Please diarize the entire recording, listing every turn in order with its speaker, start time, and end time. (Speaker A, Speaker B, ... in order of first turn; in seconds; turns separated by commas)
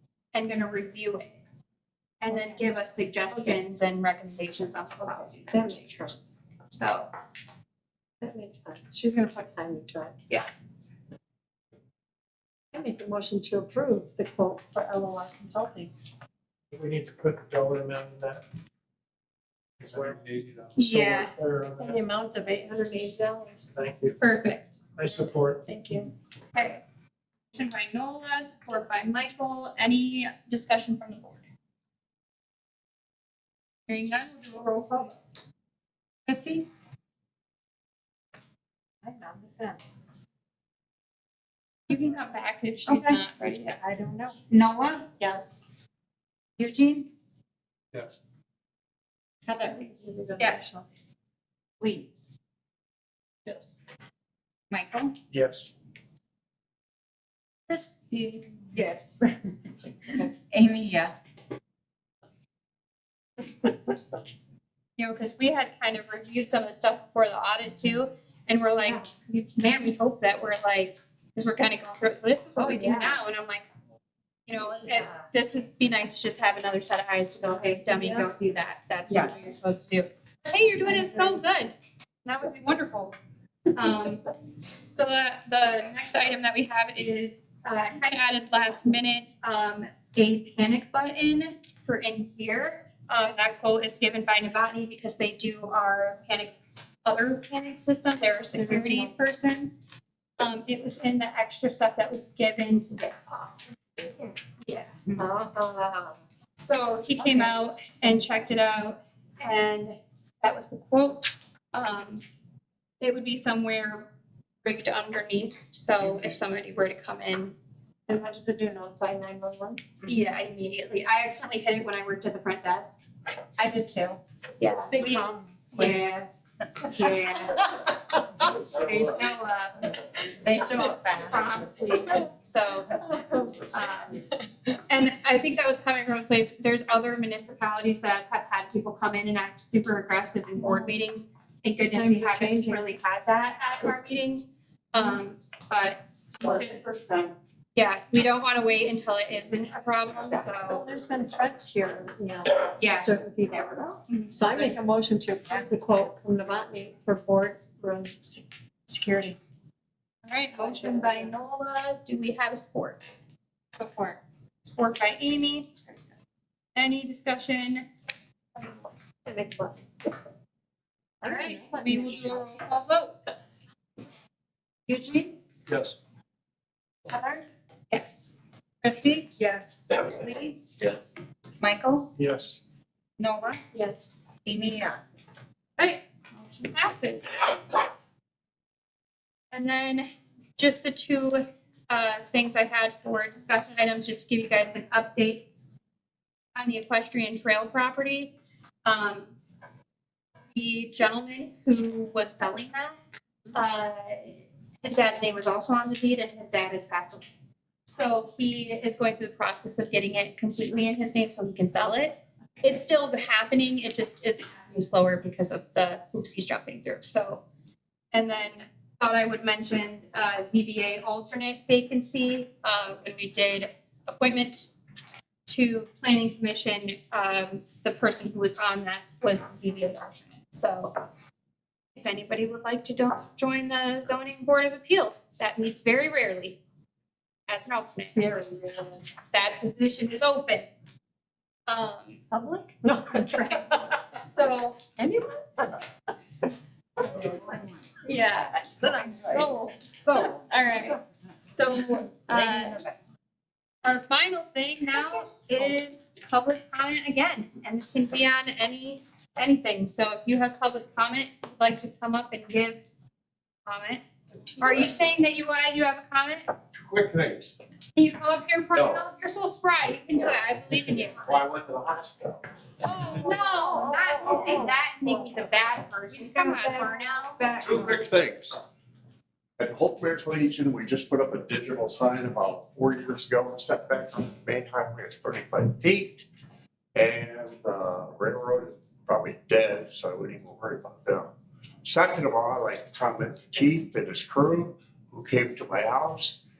Speaker A: 0.3-1.4, Speaker A: 2.2-6.2, Speaker B: 3.3-3.6, Speaker B: 5.5-6.3, Speaker A: 6.7-7.1, Speaker B: 8.2-10.1, Speaker A: 10.3-10.8, Speaker B: 12.7-15.9, Speaker C: 16.7-18.4, Speaker C: 19.8-22.0, Speaker A: 20.8-21.3, Speaker B: 21.8-23.7, Speaker C: 23.7-24.2, Speaker A: 24.2-24.8, Speaker C: 24.9-25.6, Speaker B: 25.7-26.1, Speaker A: 26.5-26.8, Speaker A: 27.5-31.4, Speaker A: 33.9-35.2, Speaker D: 36.3-36.7, Speaker B: 39.0-40.0, Speaker A: 41.9-43.8, Speaker D: 42.9-43.2, Speaker B: 43.4-44.4, Speaker D: 44.5-45.1, Speaker B: 45.2-45.6, Speaker D: 46.6-47.1, Speaker D: 49.5-49.8, Speaker B: 49.6-50.9, Speaker A: 50.4-50.6, Speaker D: 51.8-52.1, Speaker D: 54.7-55.1, Speaker C: 55.3-55.7, Speaker D: 58.7-59.2, Speaker D: 60.1-61.2, Speaker A: 65.0-73.6, Speaker B: 72.6-73.2, Speaker A: 74.5-81.7, Speaker B: 77.9-78.4, Speaker B: 79.1-79.6, Speaker A: 82.2-83.1, Speaker A: 83.7-84.2, Speaker A: 84.9-99.7, Speaker B: 98.5-99.1, Speaker A: 100.4-103.4, Speaker A: 104.6-104.9, Speaker B: 105.2-106.1, Speaker A: 106.6-112.2, Speaker B: 107.2-108.2, Speaker A: 113.0-114.1, Speaker A: 114.6-117.5, Speaker B: 118.1-119.8, Speaker A: 120.0-123.0, Speaker D: 123.6-124.2, Speaker A: 124.6-126.3, Speaker B: 124.9-125.9, Speaker A: 126.8-129.9, Speaker D: 130.4-131.5, Speaker A: 131.2-134.2, Speaker B: 133.1-133.6, Speaker A: 134.9-146.8, Speaker B: 140.6-140.9, Speaker B: 141.9-142.9, Speaker B: 146.6-147.3, Speaker A: 147.7-150.8, Speaker B: 150.5-159.4, Speaker A: 152.7-153.1, Speaker A: 154.1-154.8, Speaker A: 160.2-163.0, Speaker B: 160.6-161.3, Speaker D: 163.8-164.2, Speaker A: 164.6-165.8, Speaker A: 166.7-167.9, Speaker B: 169.2-169.8, Speaker B: 171.2-171.5, Speaker A: 171.2-173.2, Speaker D: 171.3-172.3, Speaker D: 174.9-175.4, Speaker C: 175.7-175.9, Speaker A: 177.9-178.4, Speaker D: 178.8-180.9, Speaker B: 179.4-180.0, Speaker D: 181.6-182.1, Speaker C: 182.2-182.6, Speaker D: 183.2-183.6, Speaker B: 183.7-184.1, Speaker D: 184.4-185.1, Speaker A: 186.6-187.4, Speaker A: 189.5-190.0, Speaker A: 190.6-195.5, Speaker A: 196.5-198.3, Speaker A: 198.8-199.3, Speaker A: 200.5-203.0, Speaker A: 203.5-207.2, Speaker A: 207.9-217.4, Speaker A: 218.1-224.7, Speaker A: 225.5-230.9, Speaker A: 231.9-236.6, Speaker A: 237.5-238.2, Speaker B: 238.1-239.0, Speaker A: 239.3-240.7, Speaker A: 241.7-242.2, Speaker B: 242.3-243.9, Speaker A: 243.1-244.9, Speaker D: 247.0-247.8, Speaker A: 248.0-252.8, Speaker D: 248.5-250.4, Speaker B: 248.8-249.1, Speaker D: 252.3-252.9, Speaker A: 253.8-262.8, Speaker A: 263.6-264.0, Speaker A: 264.6-266.4, Speaker E: 266.7-267.6, Speaker A: 267.9-271.4, Speaker E: 268.7-269.0, Speaker E: 271.0-272.4, Speaker A: 272.9-277.4, Speaker D: 276.2-278.1, Speaker E: 277.6-278.6, Speaker E: 279.6-286.2, Speaker E: 286.9-291.3, Speaker E: 291.8-296.4